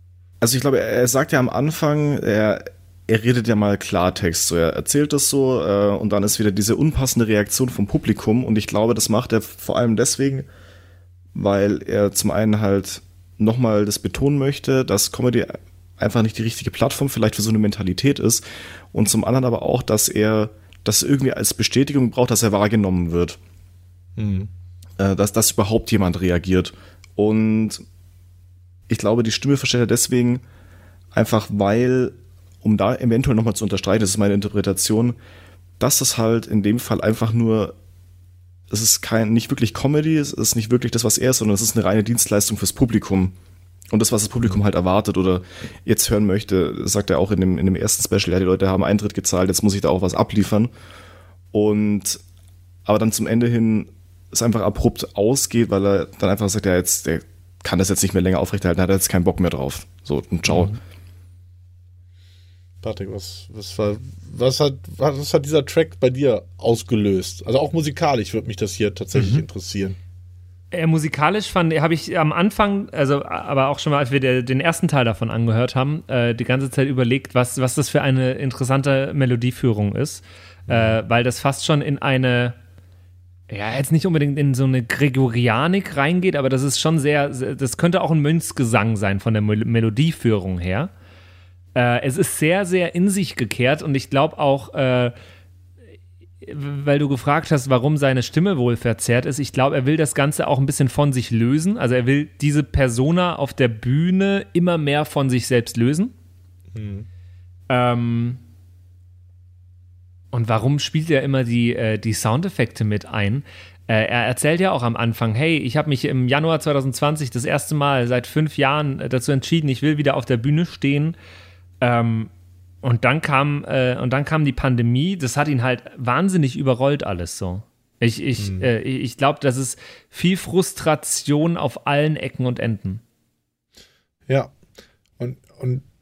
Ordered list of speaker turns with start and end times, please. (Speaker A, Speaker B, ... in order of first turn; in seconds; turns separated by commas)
Speaker A: 0.4-10.5, Speaker A: 11.3-23.4, Speaker B: 24.2-24.5, Speaker A: 25.0-27.8, Speaker A: 28.9-30.4, Speaker A: 31.1-35.2, Speaker A: 35.8-37.7, Speaker A: 38.7-43.3, Speaker A: 43.9-50.7, Speaker A: 51.5-52.2, Speaker A: 52.9-60.7, Speaker B: 62.8-70.0, Speaker C: 70.7-82.5, Speaker B: 80.7-81.0, Speaker C: 83.5-90.9, Speaker C: 91.7-95.1, Speaker C: 96.4-106.1, Speaker B: 106.7-107.1, Speaker C: 107.7-108.4, Speaker C: 110.3-121.2, Speaker C: 121.8-122.3, Speaker C: 122.8-133.0, Speaker B: 128.4-128.7, Speaker B: 135.2-135.8